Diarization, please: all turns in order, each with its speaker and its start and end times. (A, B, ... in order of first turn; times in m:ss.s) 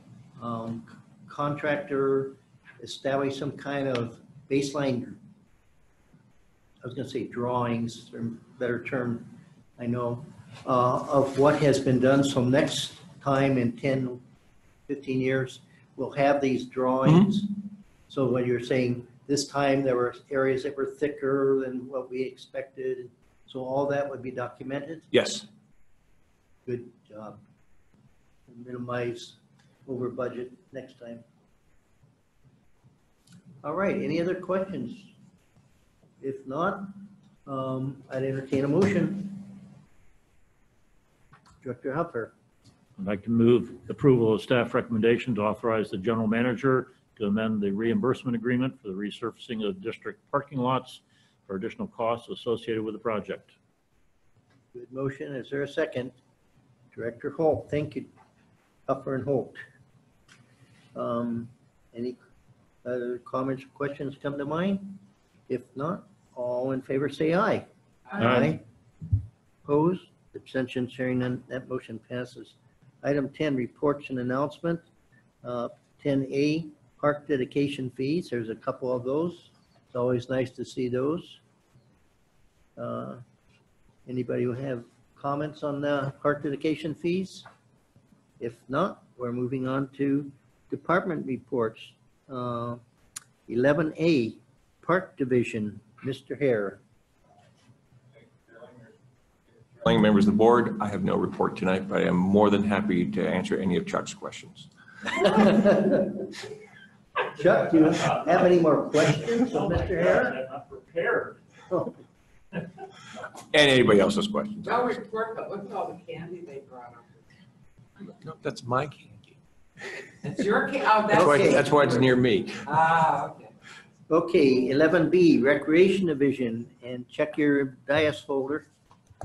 0:00.4-0:05.2 A
0:06.8-0:14.2 A
0:14.9-0:17.6 A
0:18.1-0:25.1 A
0:25.1-0:25.4 B
0:26.6-0:27.4 A
0:28.5-0:31.2 A
0:33.6-0:35.1 A
0:36.2-0:39.6 A
0:41.6-0:42.3 A
0:43.0-0:53.5 C
0:54.7-0:56.1 A
0:56.9-0:58.1 A
0:58.9-0:59.6 A
1:00.9-1:02.2 A
1:02.8-1:08.6 A
1:08.1-1:08.4 D
1:08.2-1:08.6 C
1:09.6-1:14.8 A
1:15.4-1:21.4 A
1:22.8-1:23.2 A
1:24.0-1:27.4 A
1:28.4-1:32.8 A
1:33.5-1:36.8 A
1:39.8-1:45.6 B
1:45.5-1:46.1 A
1:47.3-1:50.4 A
1:49.3-1:51.4 C
1:51.7-1:51.9 A
1:53.5-1:54.6 B
1:54.6-1:57.2 D
1:58.2-1:59.3 B
2:00.2-2:02.1 D
2:01.1-2:02.6 B
2:01.1-2:01.7 A
2:02.6-2:03.5 D
2:04.1-2:08.6 A